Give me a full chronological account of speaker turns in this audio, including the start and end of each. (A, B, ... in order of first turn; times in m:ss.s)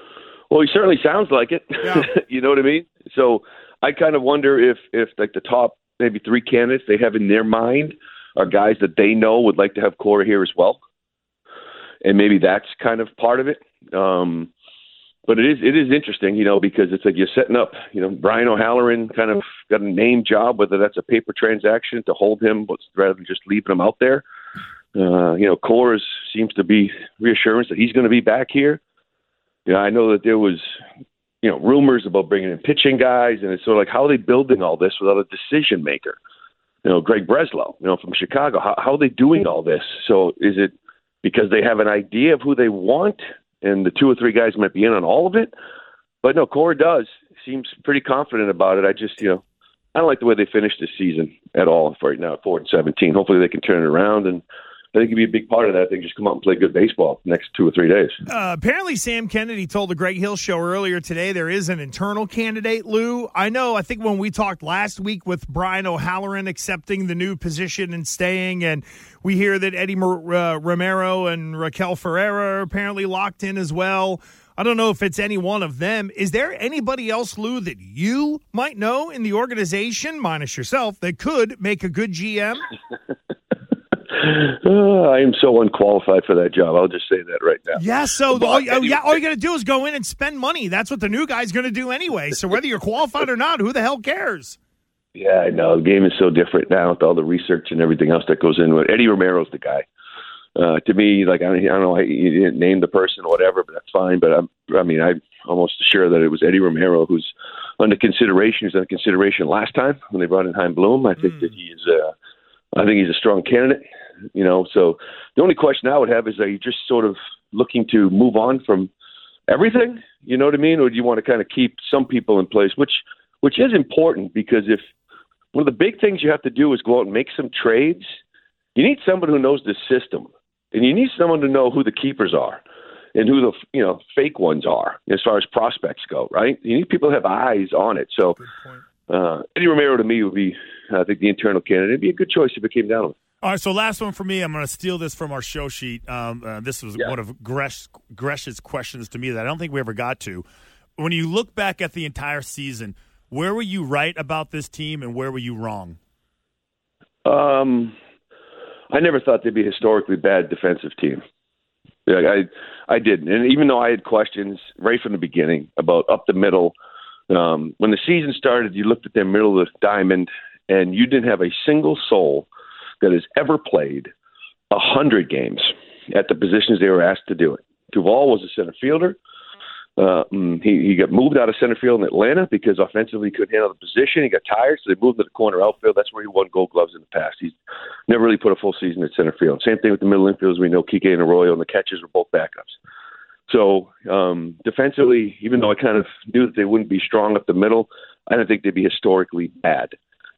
0:00.5-0:10.8 A
0:12.0-0:14.5 A
0:15.3-0:24.2 A
0:24.9-0:28.8 A
0:29.6-0:30.6 A
0:31.4-0:36.2 A
0:36.8-0:45.5 A
0:46.2-0:49.4 A
0:49.9-0:54.4 A
0:54.9-0:58.2 A
0:58.3-1:22.7 B
1:24.1-1:29.2 A
1:27.7-1:34.6 B
1:35.1-1:39.8 A
1:40.6-1:52.1 A
1:52.7-1:53.8 A
1:54.3-1:58.9 A
1:59.5-2:04.8 A
2:05.5-2:08.0 A
2:08.8-2:12.6 A
2:13.1-2:18.4 A
2:18.4-2:18.8 B
2:19.1-2:23.1 A
2:23.4-2:36.0 C
2:37.2-2:37.9 A
2:38.9-2:41.2 A
2:42.1-2:46.7 A
2:47.3-2:52.5 A
2:53.0-2:54.1 A
2:54.7-2:59.2 A
3:00.0-3:07.5 A
3:08.1-3:12.8 A
3:13.5-3:19.9 A